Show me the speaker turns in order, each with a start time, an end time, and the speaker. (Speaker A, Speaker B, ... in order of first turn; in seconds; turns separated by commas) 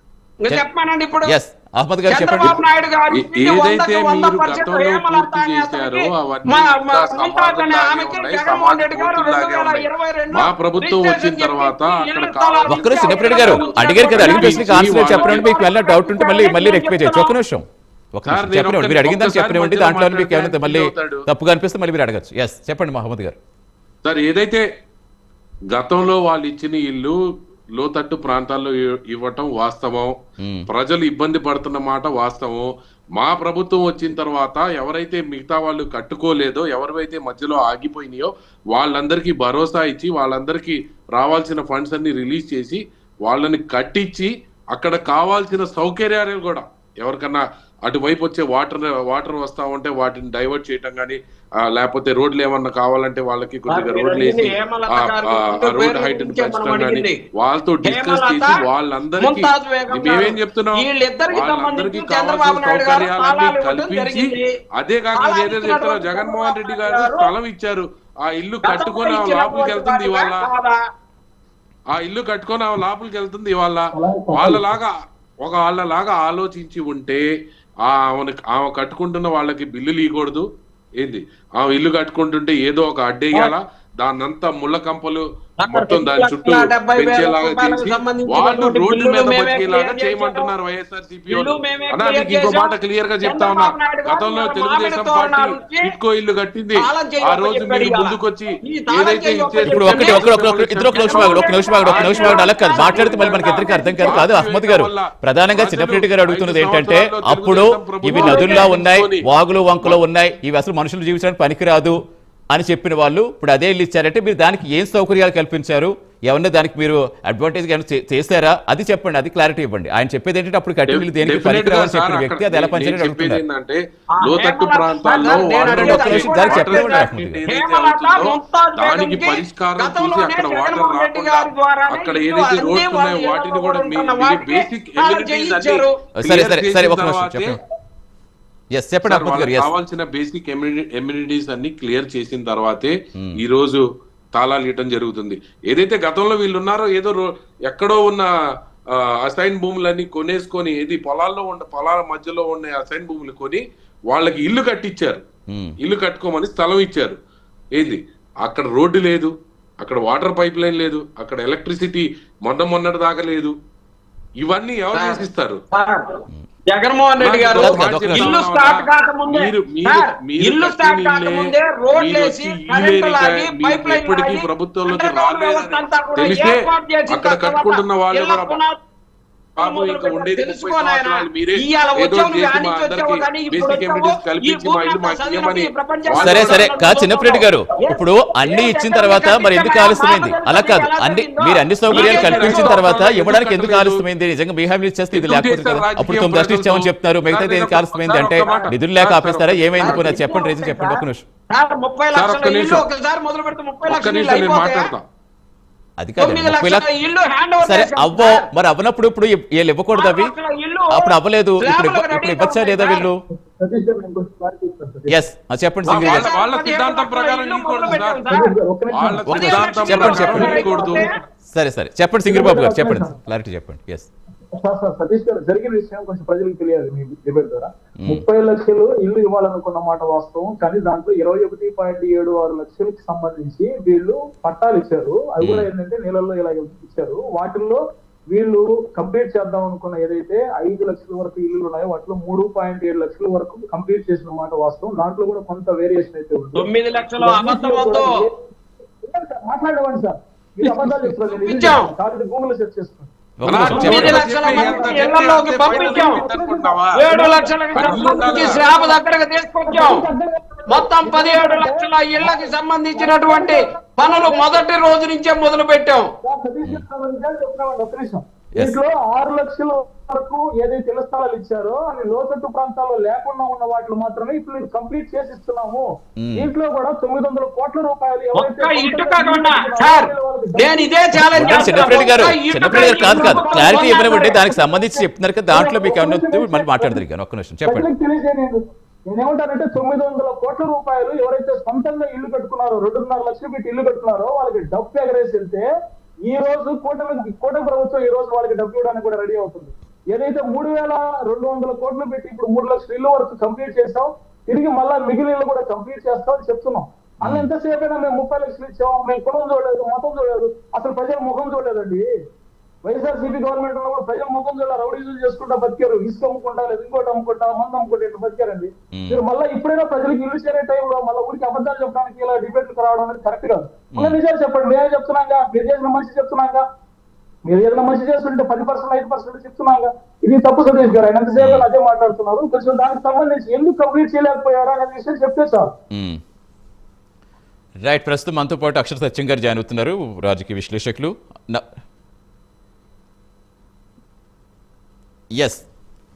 Speaker A: 0.4-1.3, Speaker B: 1.3-2.5, Speaker A: 2.1-17.4, Speaker C: 2.4-15.6, Speaker B: 12.7-23.4, Speaker C: 18.3-21.3, Speaker C: 24.0-24.6, Speaker C: 25.7-27.2, Speaker C: 27.8-30.1, Speaker B: 30.4-30.7, Speaker C: 30.7-70.5, Speaker A: 53.7-57.2, Speaker A: 57.9-58.6, Speaker A: 59.2-64.5, Speaker A: 65.2-67.3, Speaker A: 68.6-70.8, Speaker C: 71.9-77.2, Speaker D: 73.9-74.8, Speaker C: 77.8-80.5, Speaker C: 81.0-109.2, Speaker A: 85.6-90.5, Speaker A: 91.3-92.7, Speaker A: 93.2-95.9, Speaker A: 96.8-100.3, Speaker B: 99.6-112.0, Speaker A: 101.0-104.2, Speaker A: 108.1-108.7, Speaker B: 112.5-123.4, Speaker C: 120.9-137.6, Speaker A: 124.1-135.9, Speaker B: 125.6-127.4, Speaker B: 136.2-137.6, Speaker B: 138.7-139.7, Speaker C: 139.1-143.8, Speaker C: 144.3-148.3, Speaker C: 149.0-155.2, Speaker C: 155.8-157.2, Speaker C: 157.8-163.5, Speaker C: 164.4-165.6, Speaker A: 164.9-178.8, Speaker C: 167.2-178.6, Speaker B: 167.6-168.4, Speaker C: 179.6-186.7, Speaker A: 179.6-192.8, Speaker B: 186.2-201.2, Speaker C: 191.9-194.0, Speaker C: 195.1-200.1, Speaker A: 198.4-198.7, Speaker A: 199.8-204.9, Speaker C: 202.2-202.8, Speaker C: 203.9-205.0, Speaker B: 206.0-206.9, Speaker A: 206.2-208.4, Speaker B: 207.6-210.3, Speaker A: 209.9-213.1, Speaker B: 210.9-213.2, Speaker D: 213.3-215.2, Speaker B: 215.1-216.3, Speaker C: 215.9-218.2, Speaker A: 215.9-218.5, Speaker D: 218.3-221.1, Speaker C: 218.9-221.1, Speaker A: 219.3-221.2, Speaker B: 219.3-220.5, Speaker B: 221.5-224.1, Speaker D: 222.3-223.2, Speaker D: 224.6-246.7, Speaker B: 235.4-235.7, Speaker A: 246.6-248.1, Speaker D: 247.2-248.3, Speaker D: 249.1-259.0, Speaker A: 251.3-251.9, Speaker B: 253.4-254.2, Speaker C: 253.4-257.1, Speaker A: 253.6-256.2, Speaker A: 256.9-260.1, Speaker C: 257.7-258.7, Speaker D: 259.6-264.6, Speaker A: 260.7-266.1, Speaker D: 266.2-282.1, Speaker B: 276.2-276.5, Speaker A: 278.4-284.4, Speaker B: 281.3-287.9, Speaker D: 282.7-287.0, Speaker D: 287.6-295.7, Speaker D: 296.2-312.1, Speaker D: 312.8-326.6, Speaker B: 318.9-319.2, Speaker D: 327.4-335.7, Speaker B: 331.4-331.7, Speaker B: 335.9-336.2, Speaker B: 337.8-341.6, Speaker B: 345.4-345.6